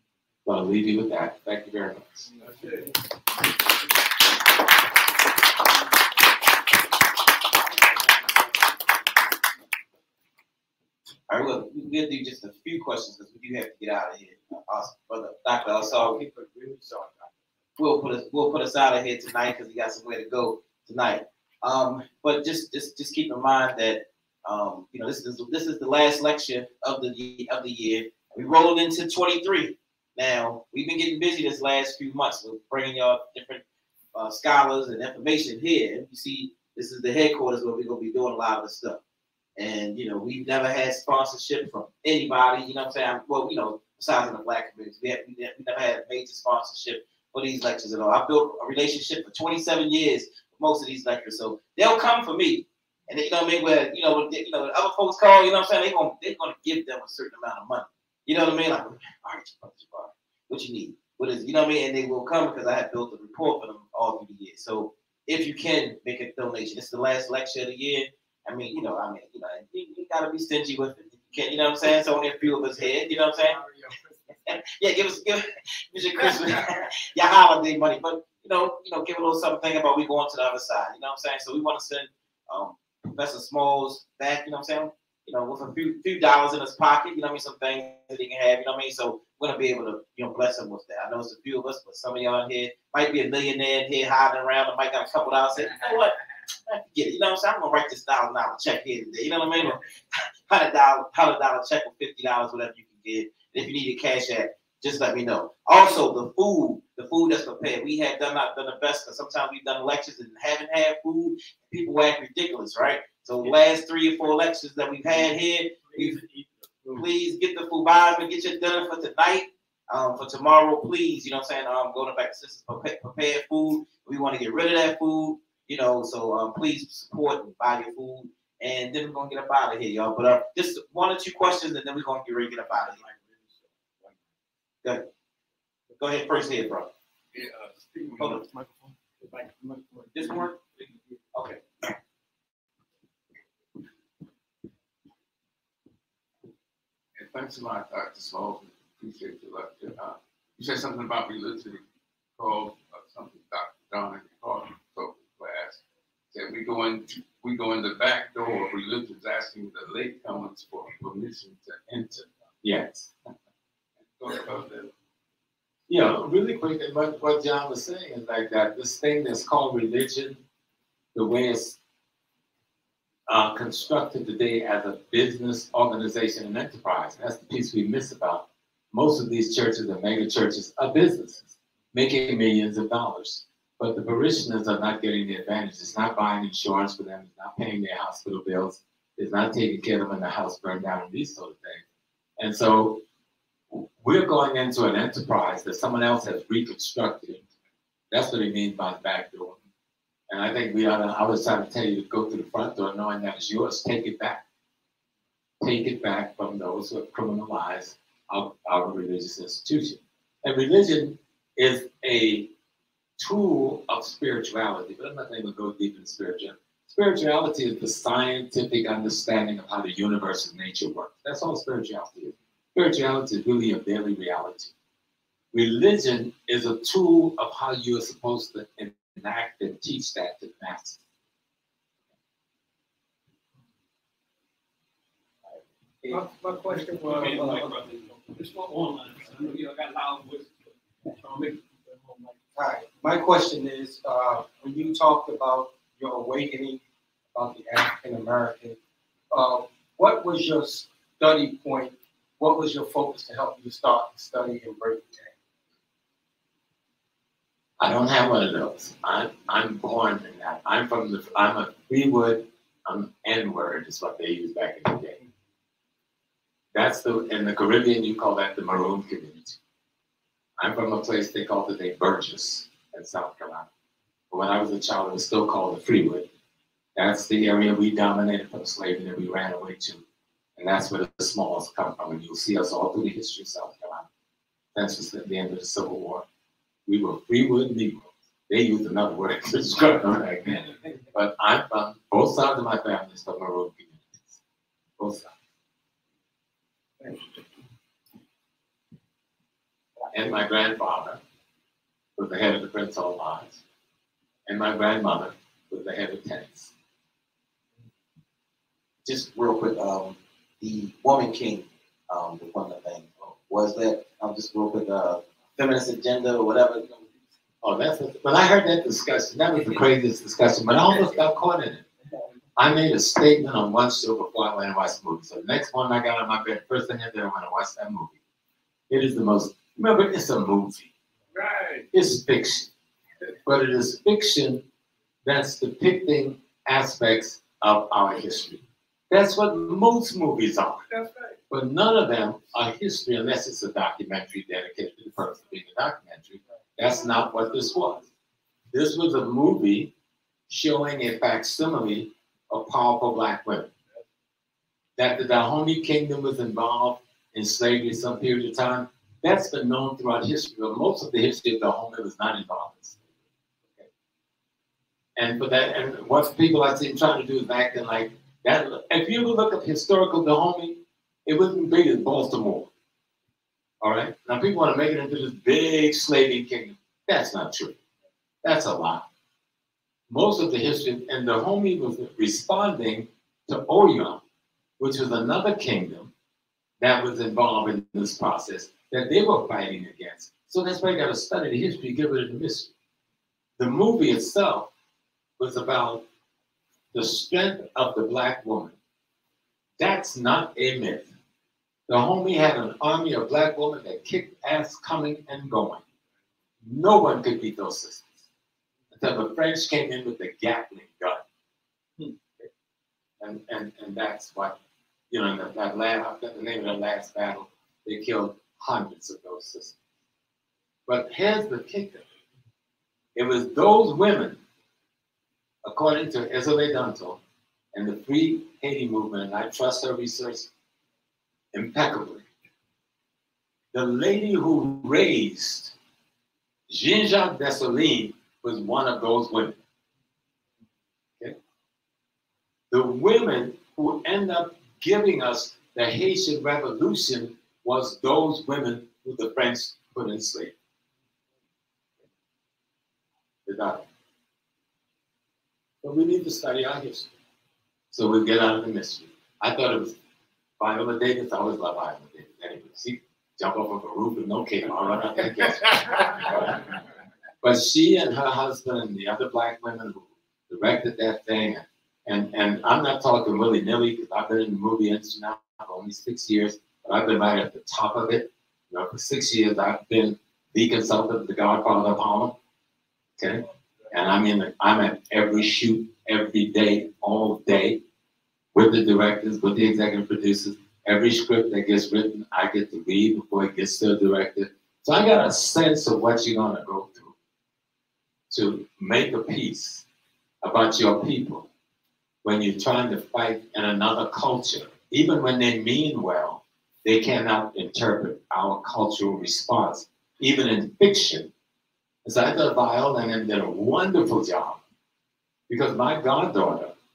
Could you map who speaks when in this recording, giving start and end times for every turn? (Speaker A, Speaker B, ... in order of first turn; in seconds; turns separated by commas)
Speaker A: 0.4-2.3, Speaker B: 11.3-16.2, Speaker C: 15.8-17.3, Speaker B: 17.8-33.6, Speaker B: 34.1-39.0, Speaker B: 39.6-73.6, Speaker C: 72.8-74.3, Speaker B: 74.5-96.1, Speaker B: 96.7-99.8, Speaker B: 100.5-116.2, Speaker C: 116.2-116.9, Speaker B: 116.9-133.0, Speaker B: 136.0-136.9, Speaker D: 137.3-138.2, Speaker B: 138.2-138.4, Speaker C: 139.3-140.0, Speaker B: 140.1-140.6, Speaker B: 141.3-141.6, Speaker D: 147.2-151.8, Speaker D: 152.4-155.8, Speaker D: 156.3-162.2, Speaker A: 162.6-163.1, Speaker D: 164.2-164.9, Speaker A: 165.9-170.4, Speaker A: 171.1-171.8, Speaker A: 173.3-191.8, Speaker A: 192.4-193.0, Speaker A: 193.7-197.4, Speaker A: 198.1-199.6, Speaker A: 200.3-204.4, Speaker A: 205.6-212.5, Speaker A: 213.2-224.7, Speaker A: 225.5-231.0, Speaker C: 236.1-237.8, Speaker E: 236.9-240.5, Speaker C: 241.1-246.8, Speaker C: 247.3-248.8, Speaker C: 249.3-255.3, Speaker A: 257.8-265.2, Speaker A: 266.7-269.6, Speaker A: 270.6-273.7, Speaker A: 274.3-276.3, Speaker A: 276.9-280.0, Speaker A: 280.6-284.1, Speaker A: 284.7-286.2, Speaker A: 286.9-294.4, Speaker A: 295.0-295.3, Speaker A: 300.1-301.2, Speaker A: 302.1-303.6, Speaker A: 304.4-306.7, Speaker B: 309.0-317.1, Speaker A: 317.6-321.8, Speaker A: 322.6-328.2, Speaker A: 328.9-330.9, Speaker A: 331.9-332.7, Speaker A: 333.4-334.6, Speaker A: 335.2-340.8, Speaker A: 341.5-348.1, Speaker A: 348.7-349.9, Speaker A: 350.5-353.7, Speaker A: 355.0-363.0, Speaker A: 365.2-372.7, Speaker A: 373.8-377.8, Speaker A: 378.4-379.1, Speaker A: 380.1-384.2, Speaker A: 384.8-386.1, Speaker A: 386.8-392.7, Speaker A: 393.6-394.7, Speaker A: 395.4-396.0, Speaker A: 396.9-398.7, Speaker A: 399.8-401.1, Speaker A: 401.9-405.8, Speaker A: 406.6-408.2, Speaker A: 408.9-411.2, Speaker A: 413.2-414.6, Speaker A: 415.1-419.8, Speaker A: 420.9-422.0, Speaker A: 423.1-424.4, Speaker A: 425.6-427.2, Speaker A: 427.7-430.5, Speaker A: 431.5-432.2, Speaker A: 433.7-435.7, Speaker A: 436.7-439.6, Speaker A: 442.7-450.5, Speaker A: 453.4-453.8, Speaker A: 455.8-457.1, Speaker A: 457.9-459.9, Speaker A: 460.6-466.8, Speaker A: 467.4-482.4, Speaker A: 483.2-487.8, Speaker A: 488.5-497.1, Speaker A: 498.3-499.8, Speaker A: 500.4-501.5, Speaker A: 502.2-511.3, Speaker A: 512.0-514.6, Speaker A: 515.5-516.7